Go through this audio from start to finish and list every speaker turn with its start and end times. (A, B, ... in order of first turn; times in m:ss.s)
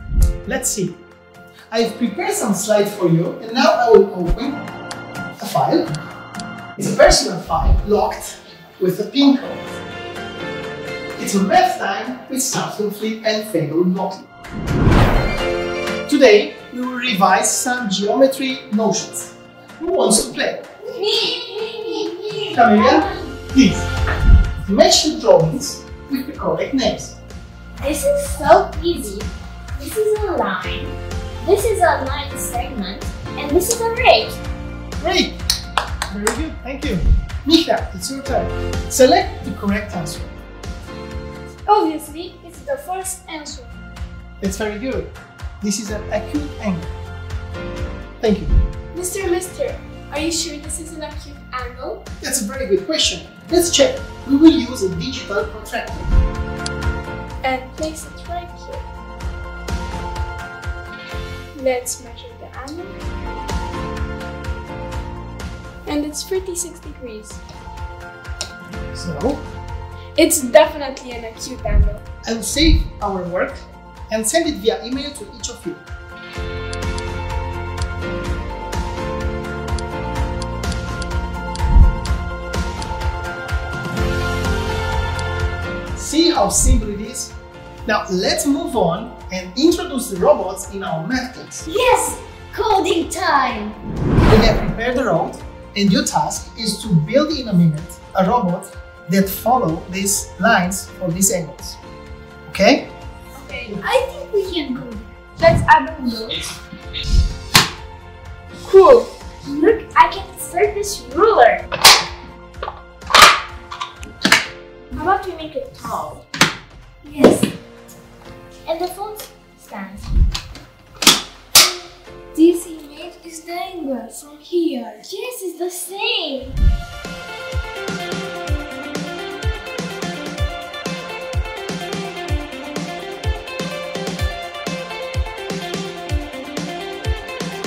0:00.5-0:01.0 A
0:01.7-0:04.6 A
0:05.4-0:05.9 A
0:06.8-0:09.7 A
0:11.2-0:14.2 A
0:16.1-0:20.6 A
0:20.9-0:23.3 B
0:22.5-0:23.9 A
0:24.6-0:27.2 A
0:27.8-0:34.4 B
0:35.0-0:35.4 A
0:36.1-0:40.3 A
0:41.7-0:43.7 C
0:44.4-0:46.9 A
0:48.2-0:48.5 A
0:48.9-0:52.0 C
0:52.2-0:56.1 A
0:57.4-0:58.8 C
1:01.6-1:03.0 C
1:05.9-1:07.4 C
1:08.9-1:09.4 A
1:10.2-1:12.0 C
1:12.2-1:15.8 A
1:26.0-1:27.3 A
1:27.9-1:31.6 A
1:31.7-1:33.8 B
1:34.2-1:41.8 A
1:42.5-1:42.9 A
1:43.4-1:43.8 C
1:45.4-1:46.5 C
1:48.6-1:49.1 C
1:49.5-1:51.7 B
1:54.9-1:56.2 B
1:58.7-2:00.1 B
2:02.4-2:06.6 B